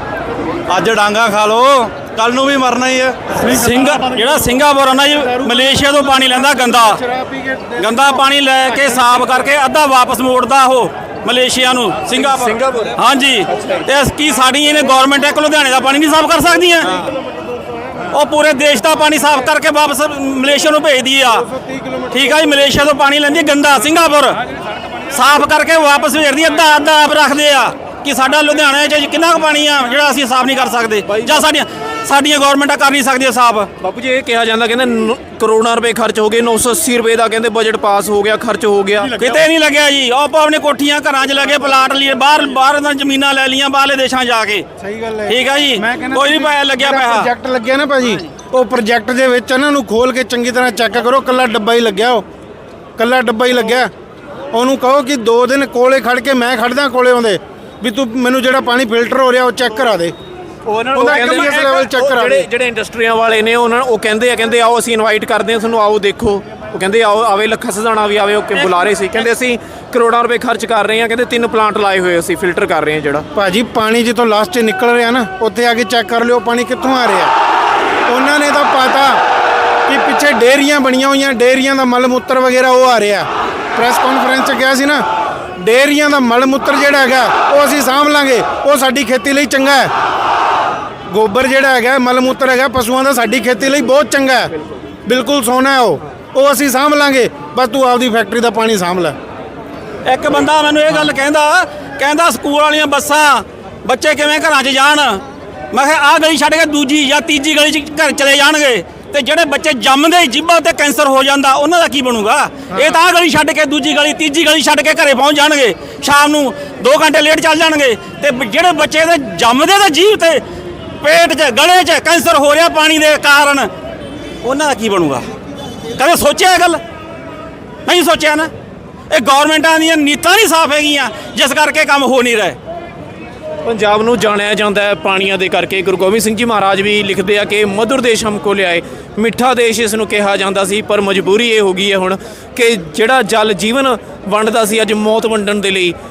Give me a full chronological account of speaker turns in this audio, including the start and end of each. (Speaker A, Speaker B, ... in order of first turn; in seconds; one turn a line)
Speaker A: 0.7-3.3
Speaker B: 3.4-7.0
Speaker C: 3.6-4.3
Speaker C: 5.1-9.5
Speaker B: 7.8-17.1
Speaker D: 12.5-12.9
Speaker D: 13.5-13.8
Speaker B: 18.1-21.4
Speaker C: 21.4-22.6
Speaker B: 22.1-24.4
Speaker B: 25.1-33.7
Speaker D: 31.1-31.4
Speaker D: 33.8-39.1
Speaker B: 39.1-44.6
Speaker C: 44.8-52.2
Speaker B: 45.3-47.3
Speaker C: 53.0-53.9
Speaker C: 54.5-60.1
Speaker D: 60.6-73.2
Speaker C: 60.9-62.5
Speaker B: 68.6-68.9
Speaker C: 73.3-77.3
Speaker C: 78.1-79.2
Speaker C: 79.9-85.0
Speaker C: 85.6-89.9
Speaker C: 91.1-94.5
Speaker C: 95.0-99.2
Speaker B: 100.0-120.4
Speaker B: 121.0-123.7
Speaker B: 124.4-125.3
Speaker B: 126.0-126.8
Speaker B: 127.8-128.5
Speaker B: 129.1-132.6
Speaker D: 133.6-145.9